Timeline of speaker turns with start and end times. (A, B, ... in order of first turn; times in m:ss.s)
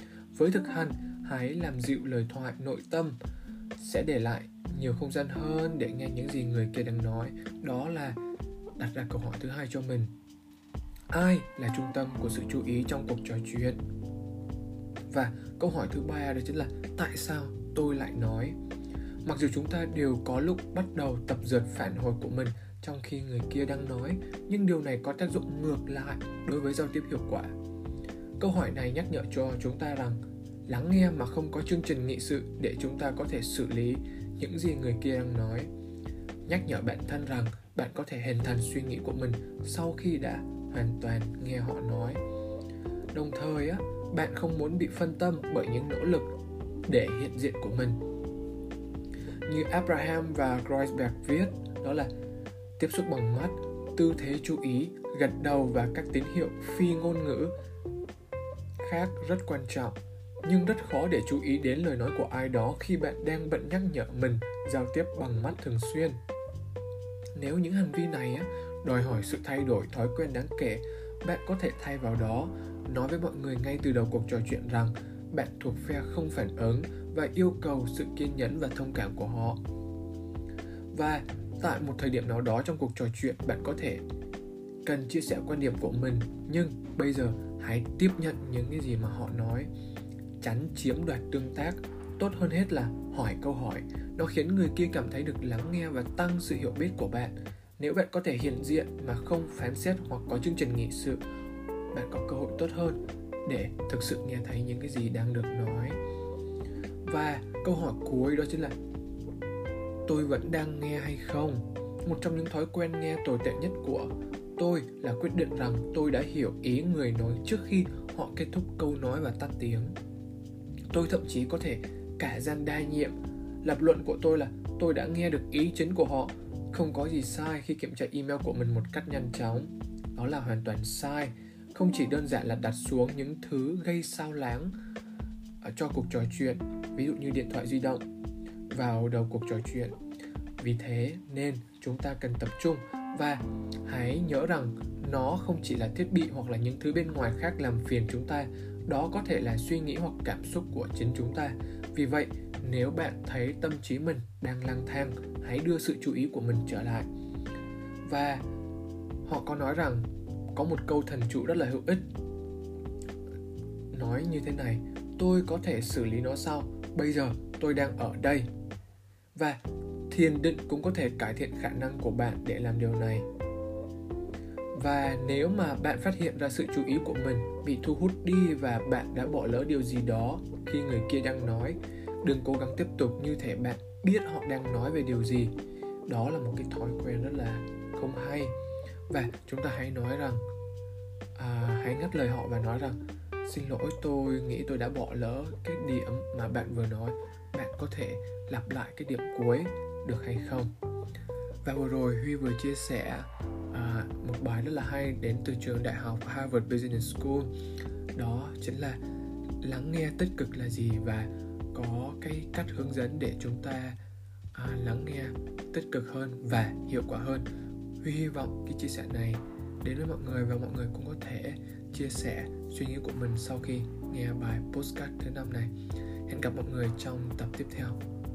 0:00.3-0:03.2 A
0:03.8-0:08.2 A
0:08.8-0:10.1 A
0:11.1-0:13.8 A
0:15.1-0:18.5 A
0:19.2-0:27.5 A
0:28.4-0:35.7 A
0:36.4-0:42.2 A
0:43.1-0:46.3 A
0:46.9-0:48.0 A
0:49.4-0:52.1 A
0:52.8-0:57.5 A
0:58.8-1:06.2 A
1:07.4-1:19.6 A
1:20.9-1:24.0 A
1:24.8-1:29.7 A
1:30.4-1:41.2 A
1:41.9-1:46.0 A
1:47.0-1:48.8 A
1:50.1-1:59.9 A
2:00.9-2:14.7 A
2:15.6-2:18.0 A
2:18.7-2:20.0 A
2:20.6-2:37.1 A
2:38.0-2:38.4 A
2:39.2-2:42.0 A
2:43.9-2:48.5 A
2:49.3-2:53.3 A
2:54.7-3:05.5 A
3:06.0-3:08.5 A
3:09.1-3:10.4 A
3:11.4-3:20.7 A
3:21.6-3:27.5 A
3:28.1-3:29.0 A
3:29.6-3:34.0 A
3:34.5-3:37.5 A
3:38.0-3:45.7 A
3:46.3-3:48.0 A